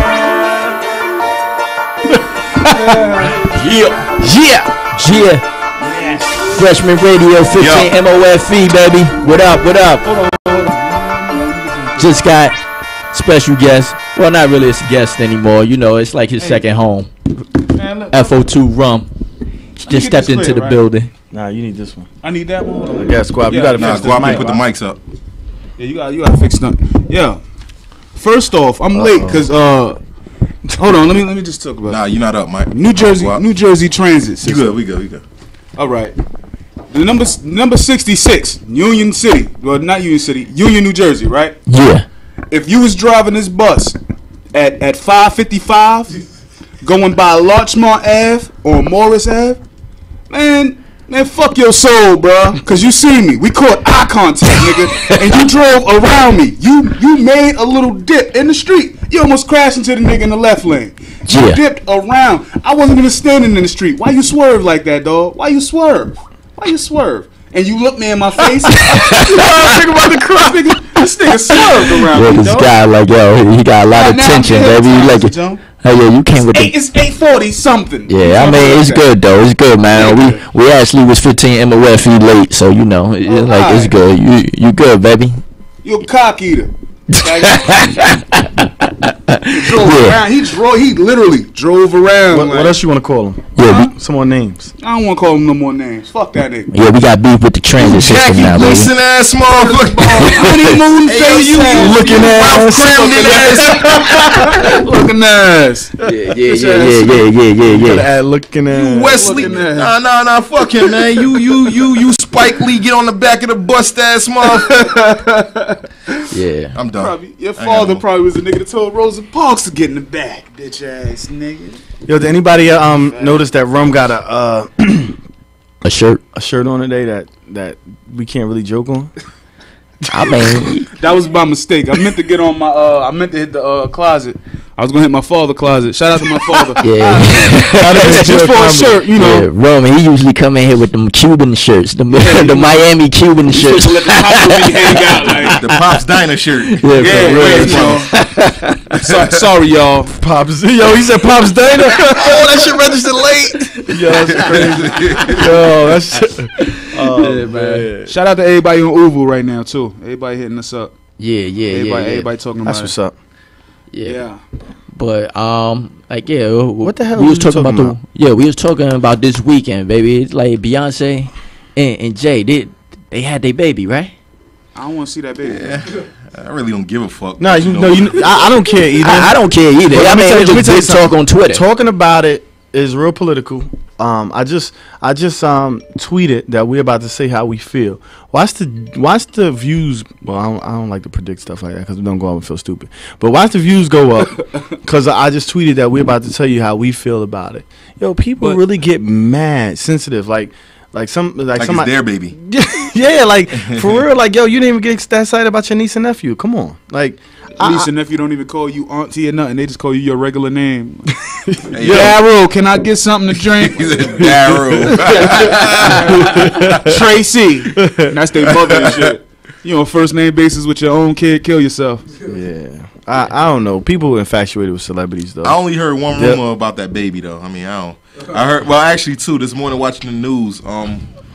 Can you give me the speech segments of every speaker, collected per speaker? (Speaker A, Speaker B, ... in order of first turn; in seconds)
Speaker A: 2.7-5.4, 6.5-10.1, 12.0-12.6, 13.1-17.1, 18.1-19.1, 19.8-21.1, 41.7-42.1, 61.3-61.6, 68.8-69.7, 71.5-76.7, 78.1-85.4, 87.3-90.2, 93.6-93.9, 96.7-98.9, 100.2-100.6, 106.0-108.1, 116.3-116.8, 125.8-126.2, 130.1-130.9, 136.8-138.4, 139.1-145.8, 146.8-148.7, 156.8-157.9, 161.2-162.3, 163.9-164.2, 164.9-174.1, 179.0-181.6
Speaker B: 5.9-6.4, 10.1-12.1, 17.6-18.4, 19.9-20.9, 22.2-24.6, 25.8-27.4, 28.1-30.0, 30.8-32.0, 32.7-34.8, 35.8-36.1, 36.9-41.6, 42.5-44.0, 44.5-46.1, 46.8-49.6, 50.3-72.7, 73.9-75.6, 76.3-79.1, 79.9-80.4, 83.3-83.9, 85.8-87.9, 89.5-92.8, 94.8-96.7, 99.6-107.4, 109.1-110.0, 114.5-115.8, 116.9-121.8, 123.1-123.4, 131.0-139.5, 142.1-145.6, 147.0-148.2, 148.9-150.1, 158.1-160.9, 161.7-162.9, 164.0-164.4, 174.8-175.8, 207.6-211.1, 211.8-222.1
Speaker C: 7.6-7.9, 23.8-25.0, 31.9-33.4, 34.4-35.2, 97.8-100.5, 101.1-104.0, 108.7-114.8, 116.8-118.0, 145.4-148.1, 154.3-155.4, 175.4-178.5, 201.6-202.3, 203.6-204.0, 211.7-212.2, 213.6-216.1, 218.4-219.1, 225.4-231.1
Speaker D: 21.3-22.1, 22.9-24.6, 28.9-29.5, 92.3-94.7, 101.2-103.4, 107.7-109.5, 122.1-125.2, 126.3-129.1, 137.7-139.3, 150.1-158.1, 162.6-163.2, 166.8-168.0, 177.4-207.9, 211.3-211.6, 217.8-218.1, 222.2-225.6, 226.1-226.4